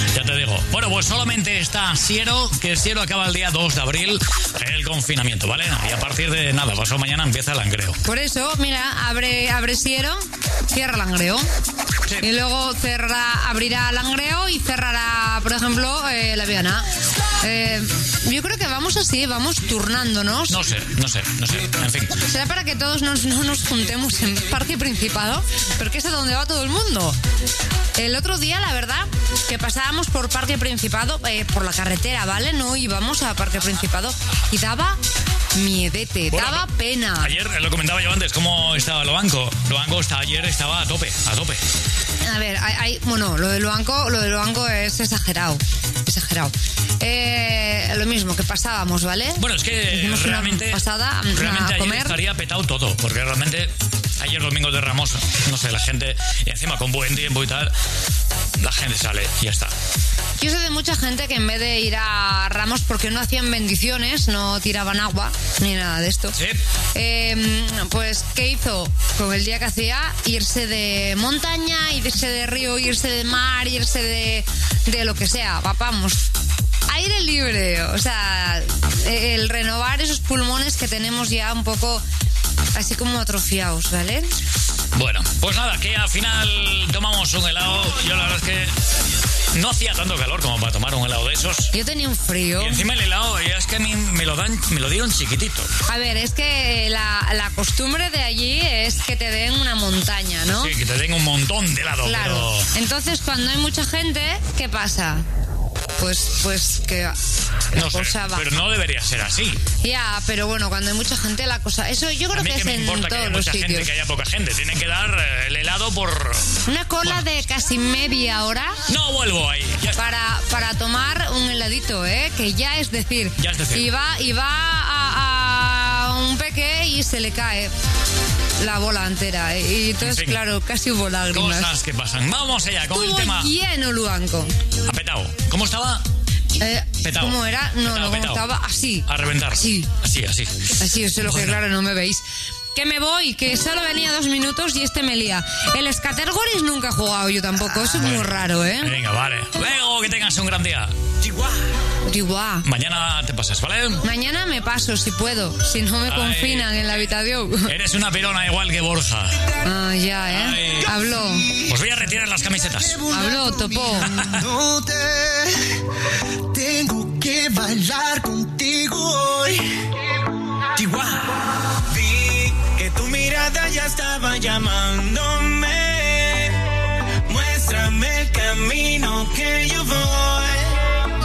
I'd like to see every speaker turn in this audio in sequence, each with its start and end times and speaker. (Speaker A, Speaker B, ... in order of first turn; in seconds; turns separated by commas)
Speaker A: 0.1-8.0, Speaker B: 8.1-11.5, Speaker B: 12.2-16.9, Speaker B: 17.4-20.6, Speaker A: 20.5-22.2, Speaker B: 22.3-27.2, Speaker B: 28.0-35.0, Speaker B: 35.5-37.3, Speaker A: 36.3-36.7, Speaker A: 37.2-41.6, Speaker B: 42.2-52.1, Speaker A: 49.4-57.7, Speaker A: 58.6-59.7, Speaker B: 60.4-66.3, Speaker A: 66.3-66.6, Speaker B: 67.0-76.2, Speaker B: 76.9-82.0, Speaker B: 82.8-84.3, Speaker A: 85.0-88.7, Speaker A: 89.5-91.7, Speaker B: 91.7-92.8, Speaker A: 92.6-95.7, Speaker B: 95.9-100.7, Speaker A: 100.5-102.7, Speaker B: 102.0-105.2, Speaker B: 106.0-107.2, Speaker B: 107.7-108.5, Speaker A: 107.8-109.6, Speaker B: 109.8-113.9, Speaker A: 112.3-116.5, Speaker B: 116.7-118.8, Speaker A: 118.9-120.2, Speaker B: 120.0-127.7, Speaker A: 123.4-123.9, Speaker B: 128.6-131.7, Speaker A: 130.0-130.4, Speaker A: 131.3-133.5, Speaker B: 132.9-134.5, Speaker A: 134.8-136.0, Speaker B: 136.6-139.9, Speaker A: 137.0-138.4, Speaker A: 139.1-141.6, Speaker B: 140.8-148.9, Speaker A: 147.7-150.9, Speaker B: 152.1-152.7, Speaker A: 152.6-154.0, Speaker B: 154.0-157.7, Speaker A: 156.1-157.0, Speaker A: 157.7-159.4, Speaker B: 159.6-161.4, Speaker A: 160.3-160.9, Speaker C: 160.9-165.6, Speaker A: 161.7-163.0, Speaker B: 163.1-164.1, Speaker C: 166.5-169.7, Speaker D: 170.8-171.1, Speaker D: 171.9-176.6, Speaker D: 177.3-180.8